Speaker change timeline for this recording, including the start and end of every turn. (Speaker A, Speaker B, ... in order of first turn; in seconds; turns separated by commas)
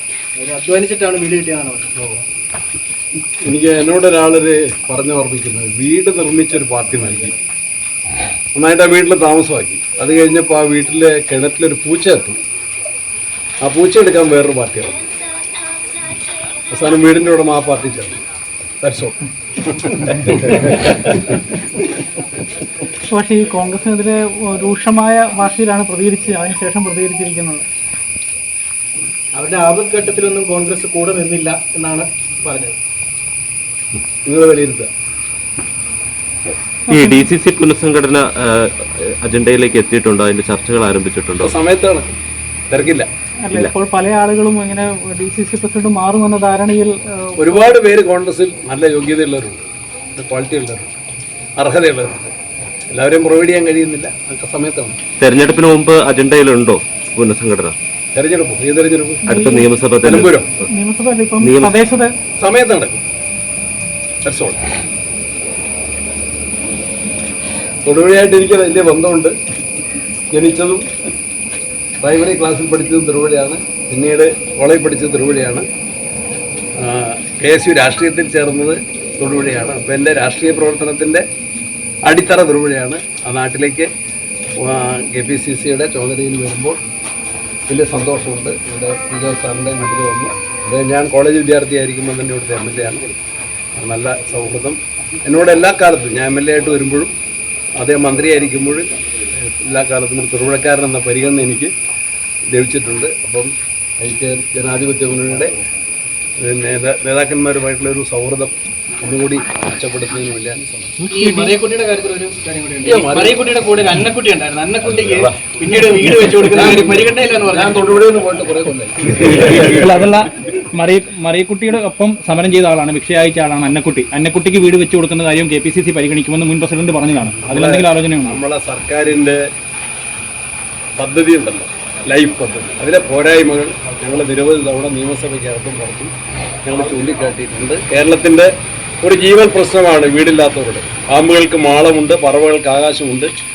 Speaker A: 0.4-2.2, Speaker B: 3.4-7.3, Speaker B: 8.5-12.4, Speaker B: 13.6-15.0, Speaker B: 16.7-18.2, Speaker B: 18.8-21.2, Speaker C: 23.1-27.6, Speaker A: 29.3-32.8, Speaker B: 34.2-34.9, Speaker D: 36.9-41.5, Speaker C: 36.9-37.3, Speaker B: 41.4-42.1, Speaker B: 42.7-43.1, Speaker C: 43.5-47.7, Speaker B: 47.4-49.6, Speaker B: 50.1-50.9, Speaker B: 51.6-52.3, Speaker B: 52.9-55.0, Speaker D: 55.2-57.7, Speaker B: 58.1-59.2, Speaker D: 59.2-60.6, Speaker C: 59.3-62.1, Speaker B: 60.1-60.5, Speaker D: 61.4-61.8, Speaker B: 62.4-63.0, Speaker B: 64.2-64.6, Speaker B: 67.8-69.3, Speaker B: 70.3-70.9, Speaker B: 72.0-75.7, Speaker B: 76.8-81.2, Speaker B: 82.1-83.9, Speaker B: 84.6-86.8, Speaker B: 87.7-93.2, Speaker B: 93.8-97.1, Speaker B: 97.8-101.7, Speaker B: 102.5-105.5, Speaker B: 106.4-111.0, Speaker E: 111.1-111.5, Speaker A: 111.1-117.8, Speaker B: 112.8-113.4, Speaker B: 114.9-115.4, Speaker B: 116.4-120.1, Speaker E: 119.4-128.4, Speaker B: 127.4-129.4, Speaker B: 131.0-136.1, Speaker B: 136.7-138.5, Speaker B: 139.0-143.3